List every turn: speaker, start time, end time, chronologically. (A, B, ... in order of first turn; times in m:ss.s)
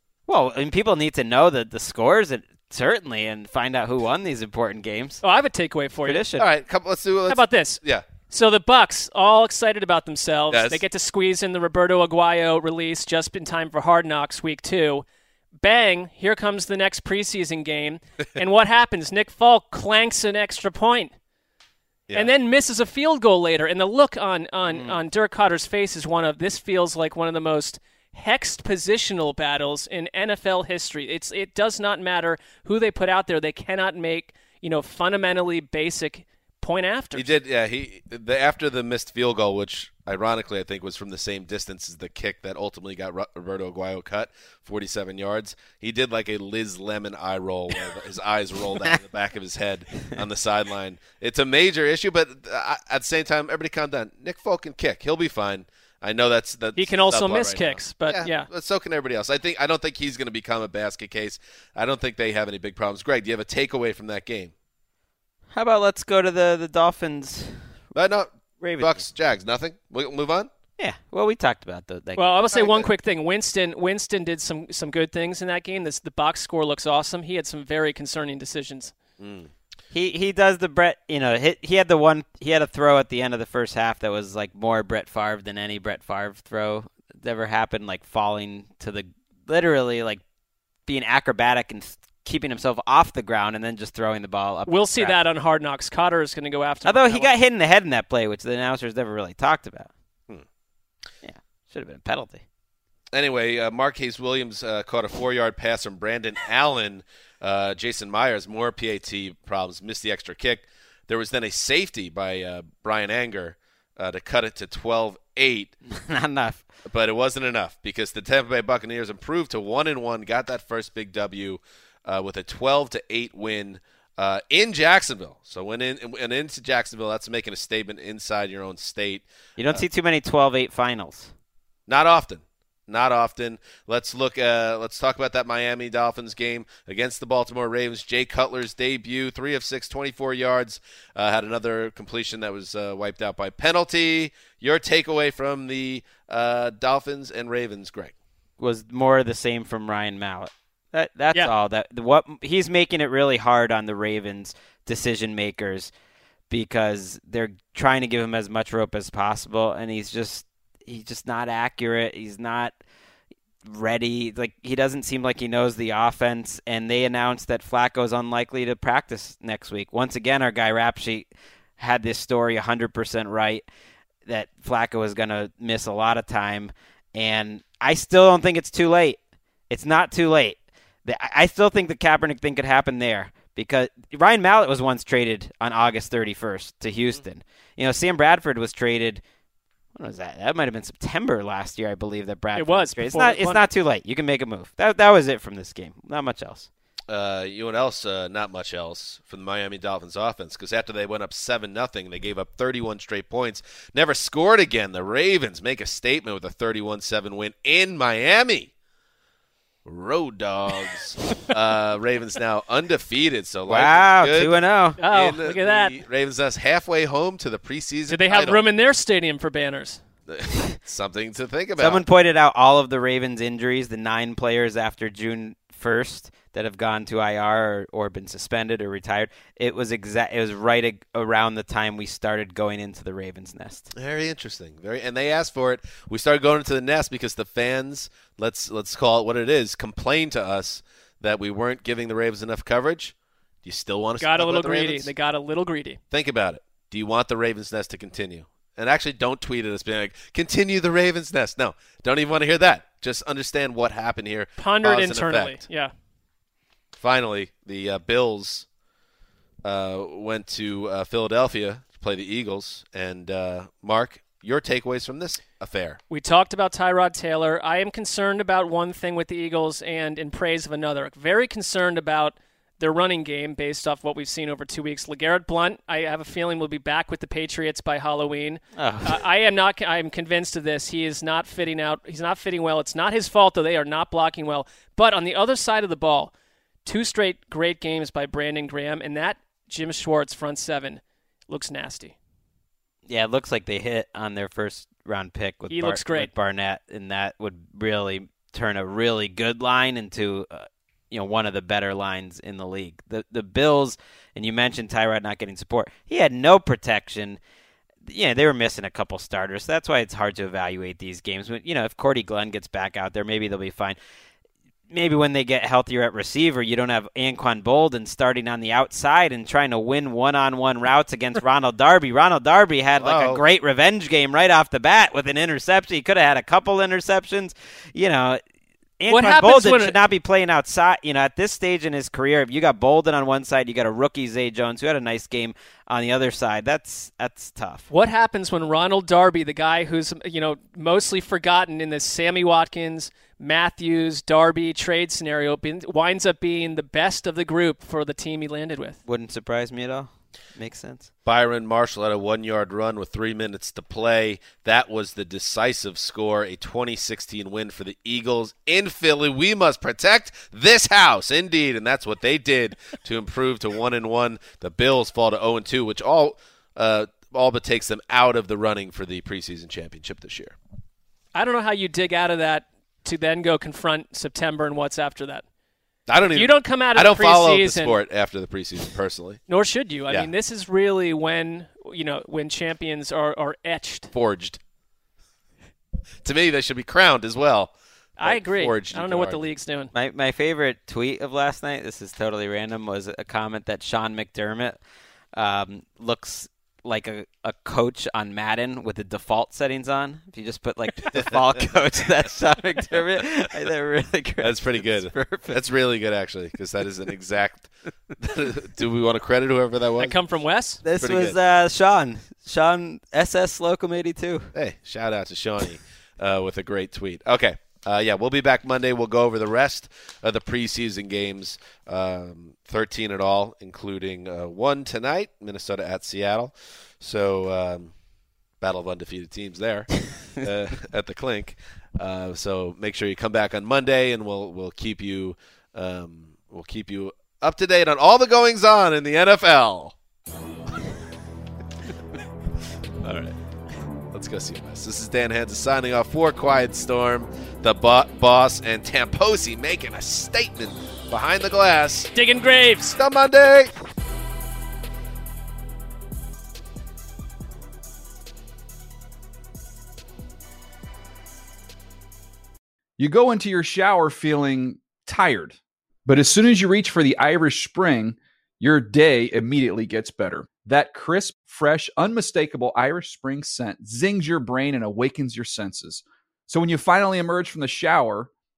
0:00.3-0:05.2 A
0:05.2-0:06.2 B
0:06.0-0:06.4 A
0:06.4-0:08.1 C
0:07.3-0:15.0 B
0:10.5-0:10.8 C
0:15.6-0:21.1 B
0:22.1-0:37.3 B
0:37.2-1:04.5 C
0:56.8-0:58.5 B
1:05.5-1:07.6 A
1:08.0-1:10.5 C
1:08.6-1:09.0 A
1:10.8-1:12.4 A
1:12.2-1:18.9 B
1:12.5-1:12.9 C
1:19.2-1:19.5 C
1:19.9-1:30.2 A
1:30.9-1:35.2 A
1:34.7-1:37.3 B
1:36.8-1:39.9 A
1:41.2-1:42.4 A
1:43.1-1:55.7 C
1:55.9-1:56.6 A
1:56.9-2:09.8 C
2:09.6-2:11.3 A
2:11.9-2:28.1 C
2:28.6-2:35.9 A
2:36.5-2:42.7 A
2:43.6-2:53.6 A
2:54.3-2:59.2 A
2:59.7-3:09.2 A
3:10.0-3:16.7 A
3:12.5-3:13.6 B
3:17.1-3:28.7 C
3:29.8-3:38.6 C
3:33.7-3:35.0 A
3:35.0-3:36.0 B
3:38.1-3:40.0 B
3:40.3-3:42.0 C
3:41.8-3:53.9 A
3:53.9-4:05.1 C
4:04.2-4:06.0 B
4:06.1-4:15.6 C
4:14.6-4:15.9 B
4:16.9-4:18.7 C
4:19.6-4:26.0 C
4:26.1-4:46.3 B
4:38.8-4:39.2 A
4:46.8-4:52.2 B
4:53.1-5:07.4 A
4:55.7-4:56.3 B
5:08.1-5:14.0 A
5:14.9-5:28.4 A
5:23.0-5:23.4 C
5:29.0-5:37.8 A
5:29.1-5:30.0 B
5:37.9-5:49.0 B
5:49.1-5:51.1 A
5:51.2-6:10.6 C
6:11.3-6:15.4 B
6:16.1-6:19.4 C
6:16.3-6:18.0 B
6:19.5-6:24.1 B
6:24.1-6:24.6 C
6:26.2-6:29.4 C
6:28.2-6:29.9 B
6:29.9-6:34.8 A
6:35.3-6:45.6 A
6:41.1-6:41.6 C
6:44.4-6:50.2 C
6:50.0-6:50.8 B
6:50.8-6:54.5 A
6:51.0-6:51.4 C
6:54.5-7:07.9 C
7:08.6-7:20.0 C
7:23.0-7:23.4 C
7:24.1-7:32.1 C
7:32.1-7:33.0 B
7:32.9-7:33.7 C
7:43.0-7:58.3 D